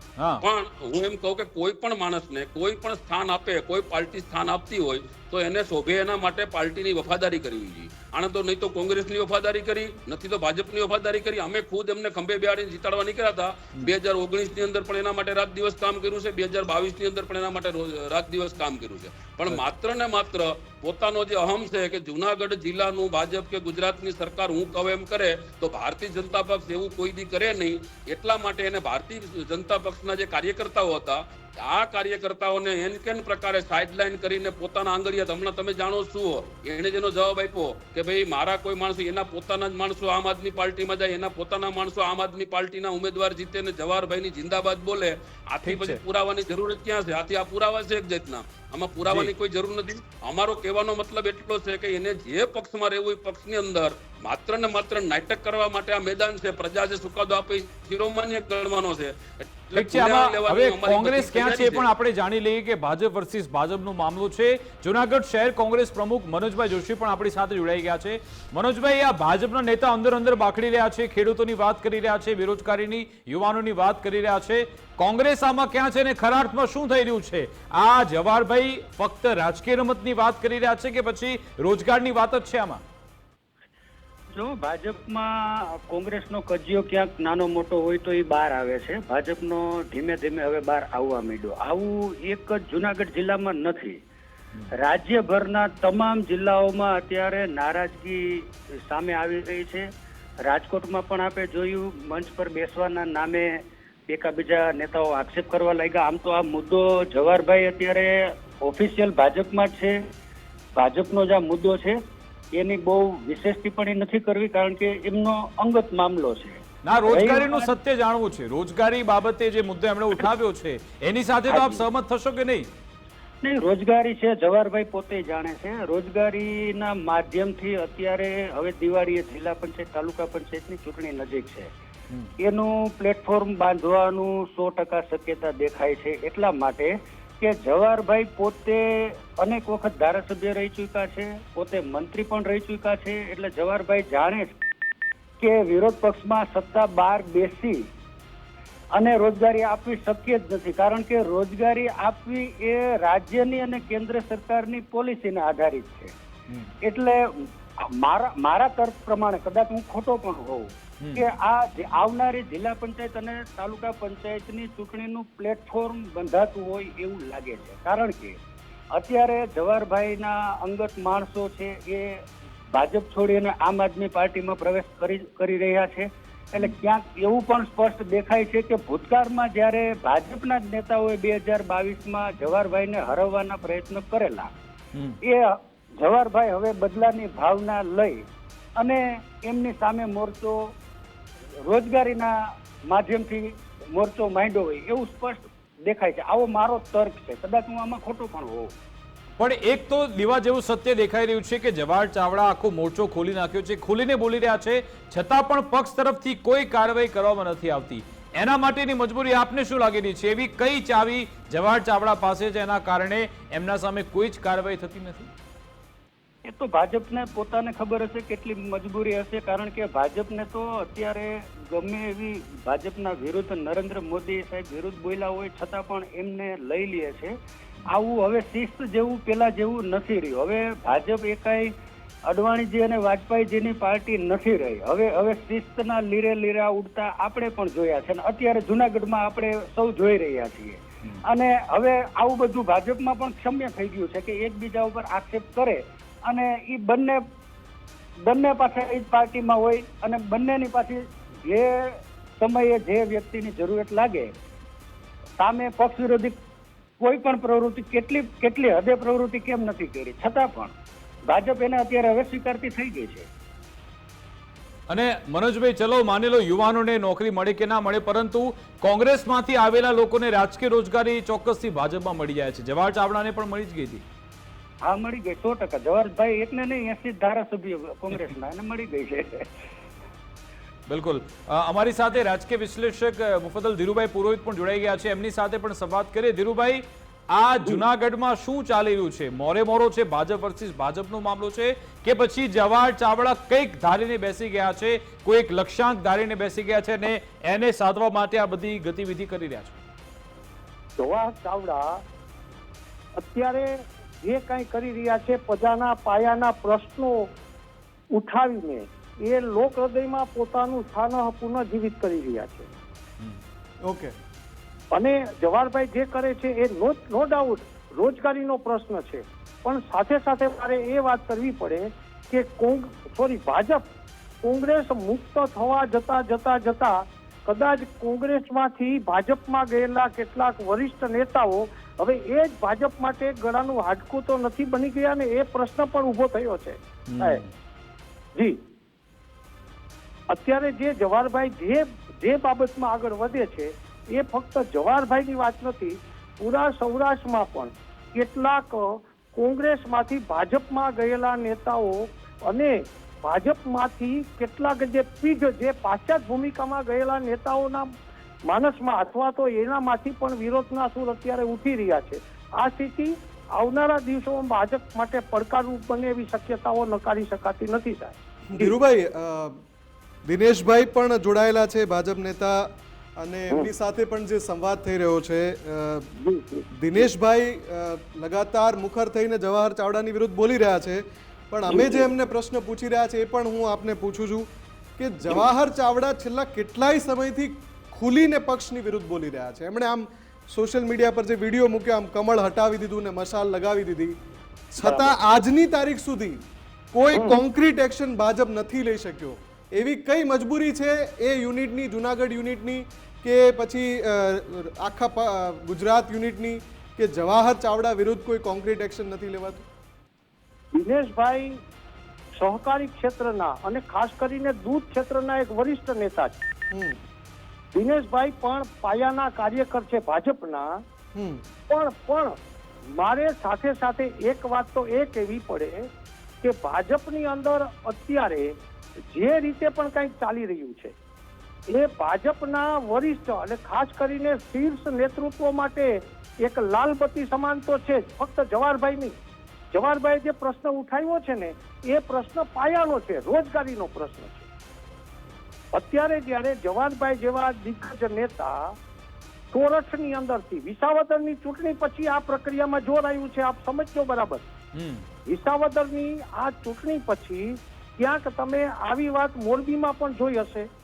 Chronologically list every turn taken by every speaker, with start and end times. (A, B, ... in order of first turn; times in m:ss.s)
0:00.2-0:00.4 A
0:00.4-1:01.8 B
0:45.6-0:46.0 A
0:49.0-0:49.3 A
0:59.7-1:22.8 A
1:24.3-1:34.0 C
1:34.7-1:39.9 C
1:40.4-1:50.0 C
1:50.8-1:52.0 C
1:52.5-1:57.7 C
1:56.8-2:02.7 A
2:01.5-2:01.8 C
2:03.4-2:11.7 C
2:12.4-2:24.5 C
2:25.4-2:27.8 C
2:28.9-2:36.1 C
2:36.8-2:37.5 C
2:38.0-2:48.4 C
2:41.0-2:41.2 A
2:48.9-3:04.5 C
3:05.2-3:08.2 C
3:08.8-3:10.6 C
3:11.6-3:12.3 C
3:12.9-3:18.7 C
3:19.4-3:35.3 A
3:36.4-3:47.3 C
3:47.8-3:51.7 C
3:52.3-4:07.2 C
4:08.2-4:14.3 C
4:15.4-4:16.4 C
4:17.0-4:20.7 C
4:21.2-4:23.3 C
4:24.9-4:34.0 A
4:34.8-4:39.5 C
4:40.9-4:59.8 A
5:01.0-5:02.0 D
5:03.2-5:07.3 D
5:08.1-5:12.7 D
5:13.8-5:14.1 E
5:14.9-5:23.8 D
5:24.4-5:37.4 D
5:37.1-5:37.5 A
5:40.3-5:57.9 D
5:58.5-6:08.7 D
6:08.5-6:09.6 E
6:10.2-6:16.1 E
6:16.2-6:17.0 D
6:16.7-6:34.1 E
6:21.7-6:22.1 D
6:34.7-6:36.4 E
6:34.8-6:35.1 D
6:36.9-6:49.6 E
6:37.1-6:37.4 D
6:50.7-6:51.6 D
6:52.4-6:56.3 D
6:56.7-6:57.0 E
6:57.7-7:00.8 D
7:01.1-7:01.4 E
7:01.7-7:02.4 D
7:02.9-7:05.9 D
7:06.4-7:08.5 D
7:09.1-7:10.9 D
7:11.7-7:19.1 D
7:19.7-7:24.4 D
7:25.7-7:28.8 D
7:29.5-7:34.4 D
7:34.7-7:35.0 A
7:35.3-7:40.7 D